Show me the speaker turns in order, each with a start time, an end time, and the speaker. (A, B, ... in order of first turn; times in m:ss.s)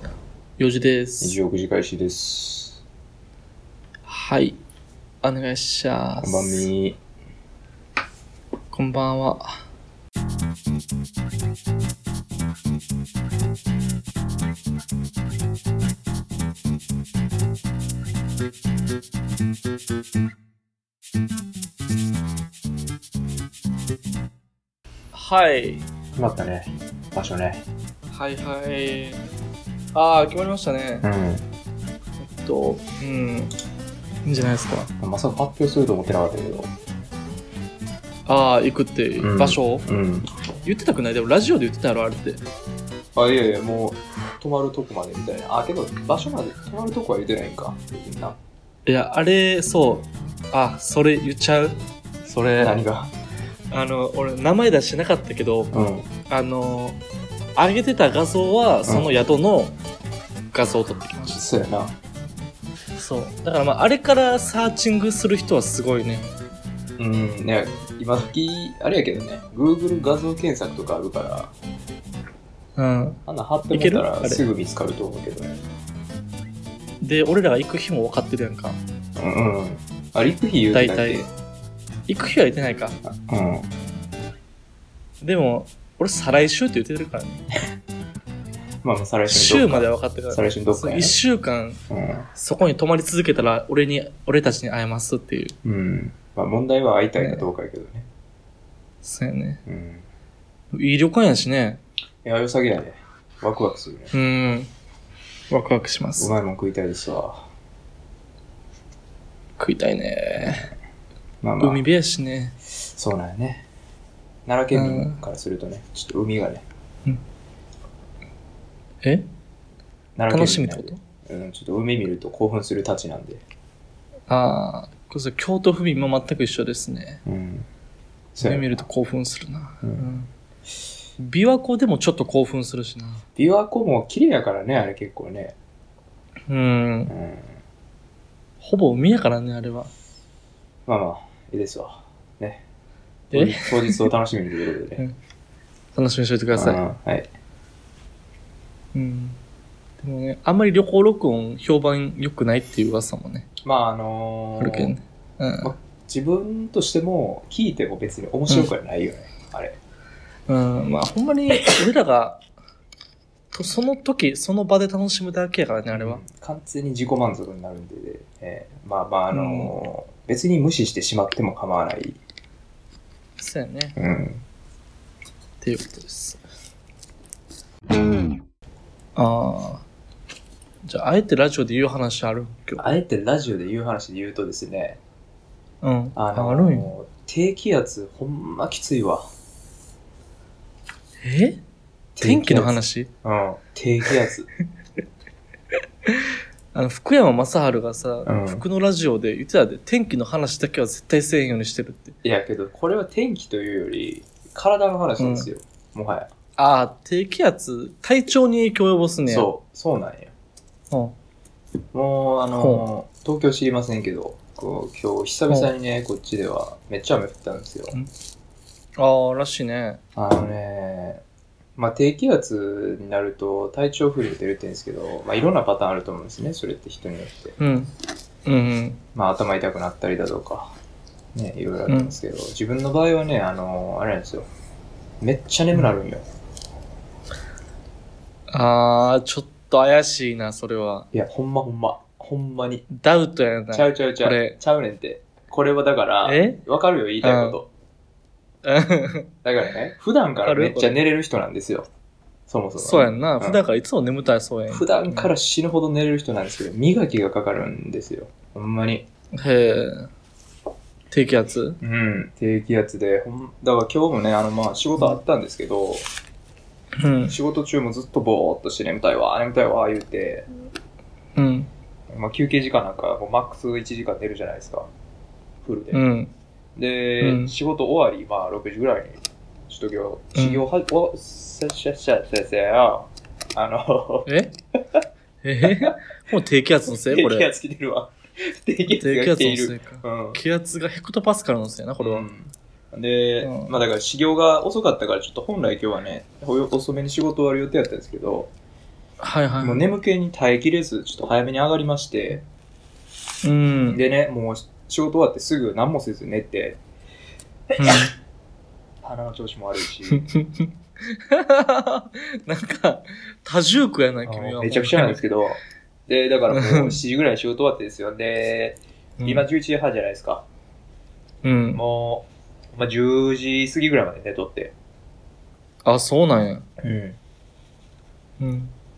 0:00.6-0:01.4 A
0:01.2-0:02.8 B
0:04.0-0:04.6 A
0:05.2-0:06.7 A
0:06.2-0:07.0 B
0:08.7-0:09.6 A
0:25.1-0:25.8 A
0:26.2-0:27.6 B
0:28.1-0:29.2 A
0:29.9-0:31.0 A
0:31.0-0:31.4 B
0:32.2-0:33.5 A
0:34.2-0:34.9 A
0:34.9-0:36.7 B
0:38.2-0:39.8 A
0:39.2-0:40.3 B
0:40.6-0:42.4 A
0:43.1-0:48.4 B
0:48.8-0:52.8 A
0:52.6-0:53.1 B
0:53.7-0:55.7 A
0:55.7-0:56.1 B
0:56.3-0:57.0 A
0:57.6-0:59.8 A
0:58.8-0:59.1 B
1:00.5-1:01.4 A
1:01.3-1:01.9 B
1:03.0-1:06.3 A
1:07.0-1:11.5 B
1:12.8-1:13.2 A
1:13.3-1:15.6 B
1:13.7-1:14.4 A
1:17.0-1:18.8 A
1:19.2-1:21.3 B
1:20.7-1:21.2 A
1:22.1-1:23.0 A
1:23.0-1:23.7 B
1:25.2-1:27.4 A
1:28.8-1:31.2 B
1:29.3-1:31.8 A
1:31.9-1:32.3 B
1:32.3-1:35.6 A
1:35.6-1:38.1 B
1:37.2-1:37.4 A
1:39.0-1:39.6 A
1:39.6-1:40.0 B
1:40.7-1:41.8 A
1:42.2-1:44.1 B
1:44.1-1:44.7 A
1:45.5-1:46.3 A
1:46.2-1:47.5 B
1:49.6-1:50.7 A
1:51.4-1:51.8 B
1:51.6-1:52.6 A
1:52.9-1:53.6 B
1:54.5-1:56.6 B
1:54.7-1:55.2 A
2:00.2-2:03.4 B
2:00.3-2:01.0 A
2:04.3-2:07.2 A
2:07.2-2:07.7 B
2:08.3-2:08.8 B
2:08.4-2:10.3 A
2:11.2-2:13.2 A
2:13.4-2:15.6 B
2:16.5-2:17.1 A
2:17.1-2:17.5 B
2:18.6-2:19.9 A
2:20.9-2:22.6 B
2:23.3-2:24.0 A
2:23.3-2:25.0 B
2:25.9-2:26.8 A
2:26.5-2:27.3 B
2:28.9-2:29.4 A
2:30.0-2:33.5 A
2:33.6-2:34.9 B
2:34.6-2:35.7 A
2:35.6-2:39.8 B
2:40.5-2:42.4 A
2:43.5-2:46.2 A
2:45.9-2:52.2 B
2:49.3-2:49.7 A
2:53.4-2:54.0 A
2:54.0-2:54.4 B
2:55.6-2:56.4 A
2:59.2-2:59.8 A
3:00.8-3:02.8 A
3:02.8-3:05.0 B
3:05.8-3:06.9 A
3:06.2-3:09.3 B
3:11.2-3:11.6 A
3:12.2-3:14.5 B
3:12.2-3:13.1 A
3:16.0-3:22.2 A
3:18.2-3:18.6 B
3:22.2-3:26.3 B
3:25.2-3:25.5 A
3:26.6-3:29.5 A
3:29.3-3:30.3 B
3:31.9-3:38.0 B
3:32.5-3:32.8 A
3:39.0-3:40.0 A
3:40.2-3:41.2 B
3:41.8-3:47.6 B
3:47.6-3:47.9 A
3:48.4-3:49.0 A
3:49.1-3:50.7 B
3:51.3-3:54.5 B
3:51.9-3:52.1 A
3:55.2-3:56.2 B
3:58.5-4:01.1 A
4:01.1-4:02.9 B
4:02.9-4:04.6 A
4:03.7-4:07.7 B
4:06.2-4:06.6 A
4:07.2-4:07.6 A
4:08.6-4:09.3 A
4:09.4-4:11.9 B
4:10.4-4:11.0 A
4:12.5-4:13.6 B
4:12.8-4:15.3 A
4:14.7-4:19.0 B
4:19.3-4:20.1 A
4:21.1-4:21.8 A
4:21.8-4:26.1 B
4:27.0-4:27.3 A
4:27.3-4:30.5 B
4:31.4-4:31.7 A
4:32.1-4:34.9 B
4:35.6-4:36.0 B
4:35.9-4:36.3 A
4:36.8-4:44.3 B
4:37.2-4:37.5 A
4:40.3-4:40.6 A
4:44.3-4:44.5 A
4:45.4-4:47.5 A
4:45.6-4:46.0 B
4:46.8-4:50.4 B
4:49.0-4:52.3 A
4:52.0-4:58.5 B
4:53.4-4:53.8 A
4:59.2-4:59.8 A
4:59.6-5:02.4 B
5:03.4-5:04.0 A
5:03.9-5:06.8 B
5:07.8-5:08.1 A
5:09.0-5:10.2 B
5:10.1-5:15.2 A
5:14.2-5:20.4 B
5:16.5-5:17.0 A
5:19.2-5:19.4 A
5:21.4-5:21.8 A
5:21.7-5:24.7 B
5:25.8-5:26.6 A
5:26.8-5:27.2 B
5:28.4-5:28.7 A